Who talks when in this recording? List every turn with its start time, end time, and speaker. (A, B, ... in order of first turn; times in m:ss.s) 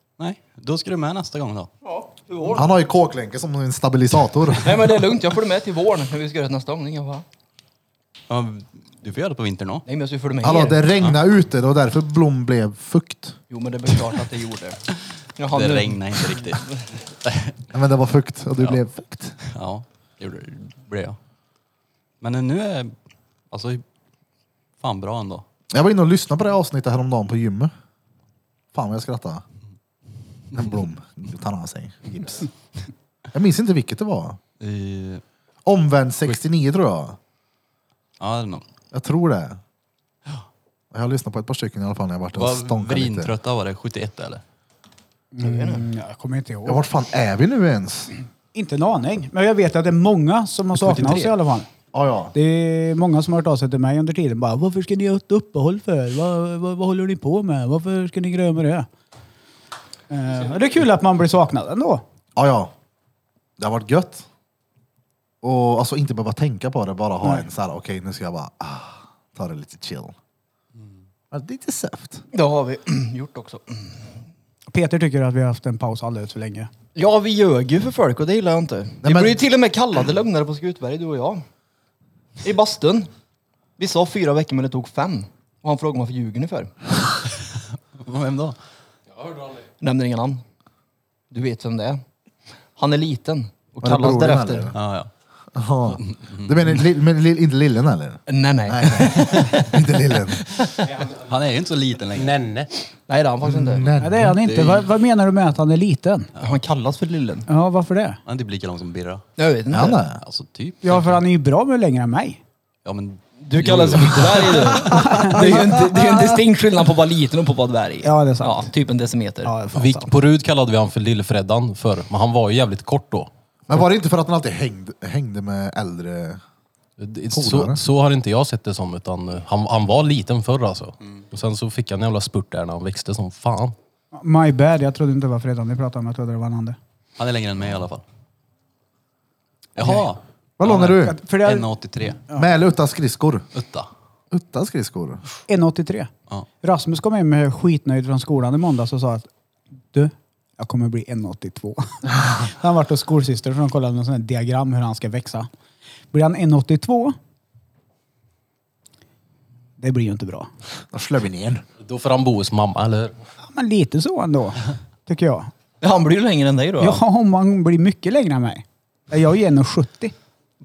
0:00.2-0:01.7 A
0:01.8-0:02.7 B
0:02.5-0:04.8 C
0:04.6-0:07.2 B
0:08.3-0:09.8 A
0:09.9-0:10.9 B
0:10.4-0:13.4 C
0:13.5-0:14.8 B
0:15.4-0:16.8 B
0:15.5-0:17.6 A
0:17.7-0:19.4 C
0:19.5-0:21.2 A
0:22.2-0:22.9 A
0:23.5-0:23.8 A
0:24.8-0:25.4 A
0:25.7-0:27.7 C
0:28.7-0:29.4 C
0:30.5-0:32.5 C
0:33.3-0:34.4 C
0:34.6-0:35.2 A
0:35.6-0:37.2 C
0:38.2-0:38.6 A
0:38.9-0:39.6 C
0:40.9-0:43.3 C
0:42.4-0:44.4 A
0:45.4-0:46.8 D
0:45.4-0:45.9 B
0:46.6-0:48.1 C
0:48.5-0:51.7 D
0:50.7-0:51.4 A
0:51.9-0:52.4 C
0:52.3-0:58.9 D
1:00.1-1:02.0 D
1:02.4-1:02.7 C
1:03.6-1:04.3 C
1:05.4-1:10.2 C
1:11.3-1:12.2 C
1:12.3-1:14.0 B
1:14.7-1:16.7 D
1:17.0-1:21.4 B
1:19.0-1:19.4 C
1:22.4-1:23.1 B
1:23.8-1:26.7 B
1:28.0-1:28.6 A
1:29.8-1:30.4 B
1:31.3-1:32.0 B
1:32.8-1:34.7 B
1:33.8-1:34.8 C
1:34.7-1:35.1 A
1:35.6-1:40.4 C
1:36.0-1:36.6 A
1:38.3-1:40.9 B
1:41.2-1:42.4 A
1:42.2-1:42.7 E
1:43.1-1:43.9 B
1:43.4-1:44.4 C
1:44.0-1:46.3 D
1:44.4-1:44.9 A
1:46.4-1:47.5 B
1:47.5-1:48.2 D
1:48.3-1:49.2 A
1:49.4-1:50.0 B
1:49.7-1:50.2 C
1:50.2-1:51.2 A
1:50.8-1:52.4 D
1:52.8-1:54.8 A
1:53.4-1:59.6 B
1:54.8-1:55.8 D
1:54.9-1:56.3 C
1:58.0-1:58.7 D
1:59.4-2:00.1 D
1:59.7-2:03.3 E
2:03.7-2:06.4 C
2:07.0-2:13.8 E
2:07.3-2:07.8 C
2:14.2-2:16.8 D
2:17.2-2:18.0 A
2:19.8-2:22.2 A
2:20.6-2:21.2 C
2:21.0-2:21.7 D
2:22.3-2:23.4 C
2:23.5-2:23.9 A
2:24.3-2:25.2 C
2:25.5-2:26.1 D
2:26.6-2:29.3 D
2:29.9-2:35.5 D
2:36.1-2:37.2 D
2:39.8-2:40.5 D
2:40.9-2:41.6 C
2:41.8-2:43.2 E
2:43.4-2:45.5 D
2:45.8-2:47.0 B
2:46.8-2:50.1 D